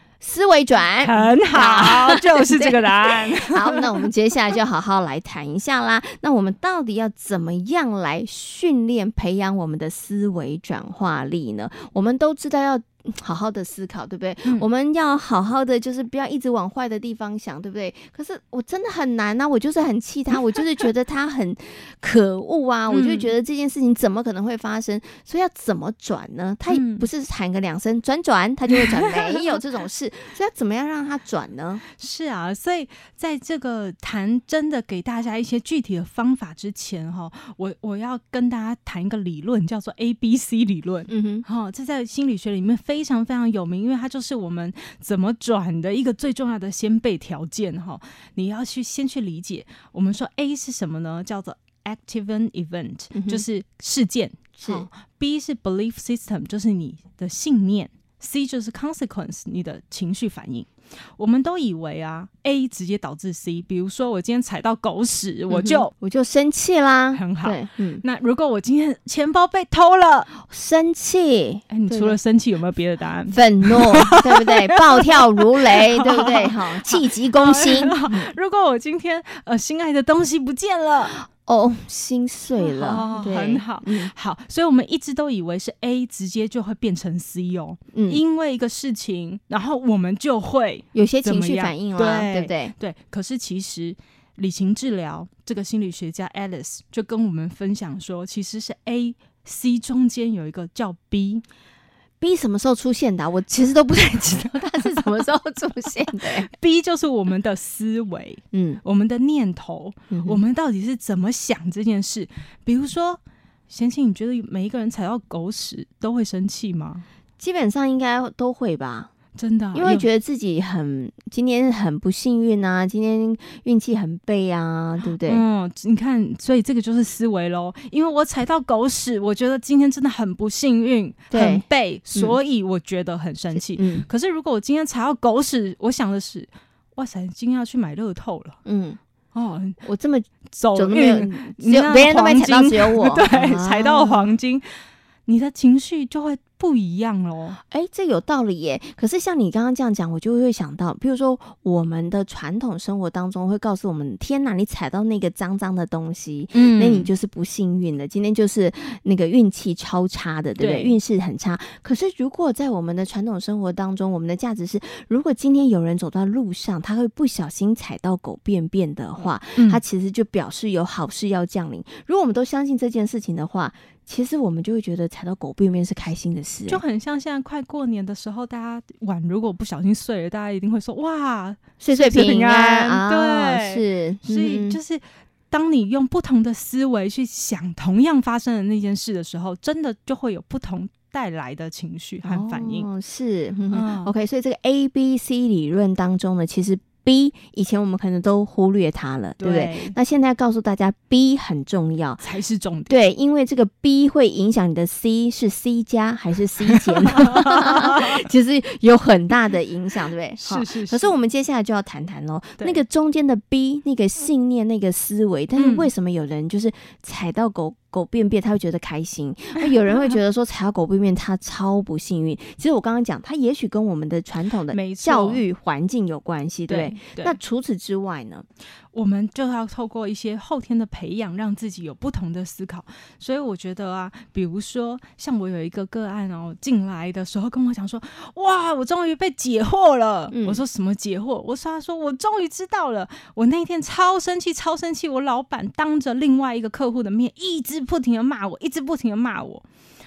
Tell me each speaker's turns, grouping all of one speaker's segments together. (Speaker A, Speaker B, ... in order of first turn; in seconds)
Speaker A: 0.2-31.8, 41.1-41.4, 53.1-53.4, 54.6-54.9, 65.5-68.0, 70.4-72.2, 73.3-78.3, 81.2-84.1, 87.9-88.2, 90.9-92.7, 102.2-106.5, 108.5-108.8, 110.1-110.4, 117.4-119.1, 119.7-125.4, 131.3-131.6, 133.5-134.1, 138.6-139.0, 139.8-144.3, 147.7-176.8, 181.8-184.8, 192.2-202.2, 202.9-228.4, 240.3-240.6
Speaker B: 1.0-3.9, 22.9-23.3, 26.7-27.1, 31.9-65.9, 67.1-70.3, 71.7-81.2, 82.6-101.4, 106.5-117.0, 119.3-120.0, 125.2-138.6, 139.3-139.8, 140.5-144.6, 145.3-147.6, 156.5-157.1, 160.6-160.9, 169.6-169.8, 176.7-192.9, 193.7-194.1, 199.4-199.9, 202.2-202.9, 207.1-208.1, 210.4-211.1, 215.6-215.9, 224.7-225.4, 226.7-227.3, 228.9-249.6